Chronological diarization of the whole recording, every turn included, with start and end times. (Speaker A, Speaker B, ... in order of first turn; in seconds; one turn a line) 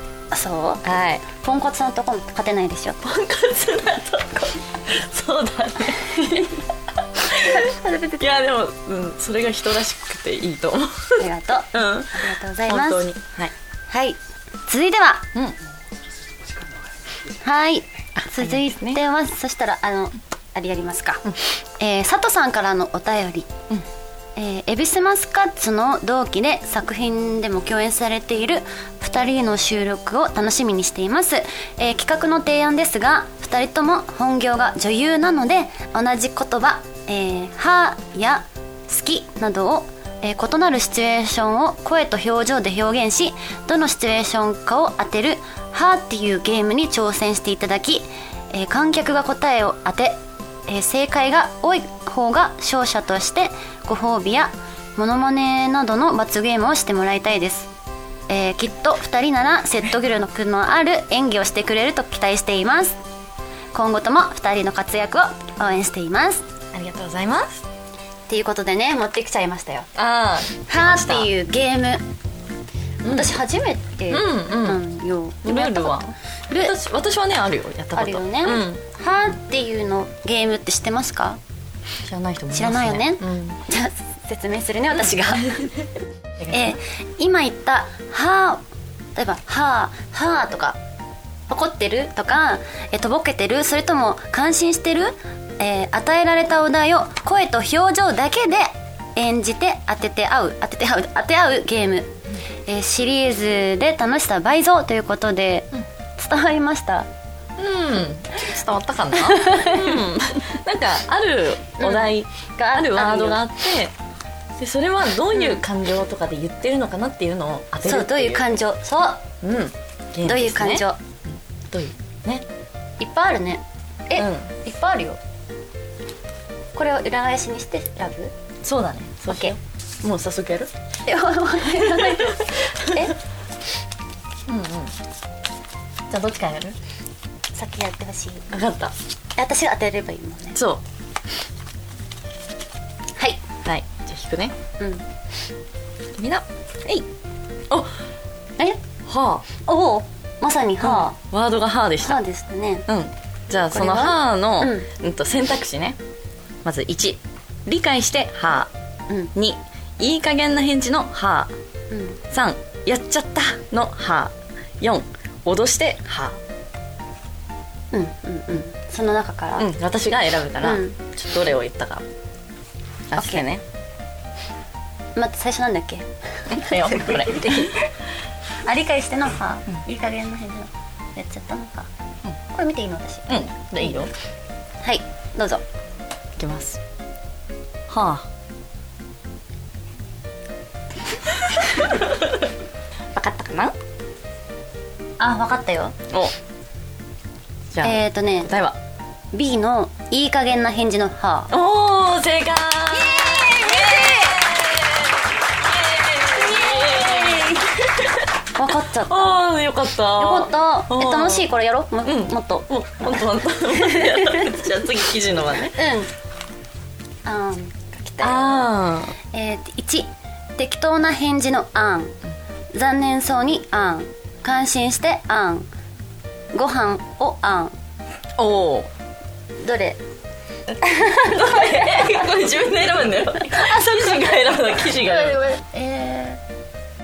Speaker A: 0.3-3.0
Speaker B: 0.8-1.2
Speaker B: 3.0-13.5
Speaker A: 6.1-6.6
Speaker A: 7.4-8.2
Speaker A: 11.2-13.1
Speaker A: 13.9-15.3
Speaker A: 17.4-23.5
Speaker B: 18.2-19.0
Speaker A: 24.4-57.7
Speaker A: 58.3-63.0
Speaker A: 63.7-66.4
Speaker B: 66.7-67.6
Speaker A: 68.3-69.9
Speaker B: 69.9-71.3
Speaker A: 70.7-72.0
Speaker B: 73.0-73.3
Speaker A: 73.0-76.7
Speaker B: 74.1-74.8
Speaker B: 75.4-78.8
Speaker A: 77.9-81.4
Speaker B: 82.0-83.6
Speaker A: 82.5-85.7
Speaker B: 85.4-85.8
Speaker B: 86.4-86.8
Speaker A: 86.5-88.6
Speaker A: 89.2-90.8
Speaker A: 91.5-102.1
Speaker A: 102.7-107.1
Speaker B: 107.6-113.9
Speaker A: 109.2-110.0
Speaker A: 111.8-113.4
Speaker B: 114.6-118.5
Speaker A: 115.3-115.6
Speaker A: 117.8-119.2
Speaker B: 119.4-122.5
Speaker A: 120.2-121.0
Speaker A: 123.0-125.2
Speaker B: 124.2-124.5
Speaker A: 126.7-128.3
Speaker B: 128.6-130.7
Speaker A: 129.3-129.5
Speaker A: 131.1-133.2
Speaker B: 131.7-133.1
Speaker B: 134.4-134.9
Speaker B: 136.1-136.8
Speaker A: 137.5-138.5
Speaker B: 138.5-138.9
Speaker A: 139.4-140.6
Speaker B: 140.5-140.8
Speaker A: 143.2-143.4
Speaker B: 143.6-144.6
Speaker A: 144.8-145.0
Speaker B: 146.1-147.1
Speaker B: 149.1-149.4
Speaker A: 149.6-151.2
Speaker B: 150.8-152.2
Speaker A: 152.0-152.9
Speaker B: 152.9-156.0
Speaker A: 153.7-154.9
Speaker B: 156.6-158.7
Speaker B: 159.3-161.5
Speaker A: 161.9-162.2
Speaker B: 162.3-166.4
Speaker A: 167.9-169.7
Speaker B: 169.6-172.0
Speaker A: 170.6-171.0
Speaker B: 173.1-173.6
Speaker A: 173.2-173.4
Speaker A: 175.2-177.9
Speaker B: 176.5-177.8
Speaker A: 178.6-181.9
Speaker A: 182.5-183.9
Speaker B: 183.3-184.1
Speaker A: 184.8-185.6
Speaker B: 186.4-186.8
Speaker B: 187.9-188.3
Speaker B: 191.6-192.5
Speaker B: 193.1-193.7
Speaker A: 195.2-195.9
Speaker B: 196.1-196.3
Speaker B: 197.7-198.8
Speaker A: 197.8-198.5
Speaker A: 199.3-201.5
Speaker B: 201.5-208.2
Speaker A: 202.9-204.4
Speaker A: 206.3-207.9
Speaker A: 208.5-209.4
Speaker B: 209.1-211.5
Speaker A: 210.2-214.6
Speaker B: 212.0-215.8
Speaker A: 215.7-216.1
Speaker A: 217.2-218.6
Speaker B: 218.2-219.2
Speaker A: 219.3-222.2
Speaker A: 222.7-225.7
Speaker A: 226.5-227.7
Speaker B: 228.4-228.9
Speaker A: 229.6-230.0
Speaker B: 230.7-235.4
Speaker A: 230.8-232.2
Speaker A: 233.5-234.1
Speaker A: 235.0-236.4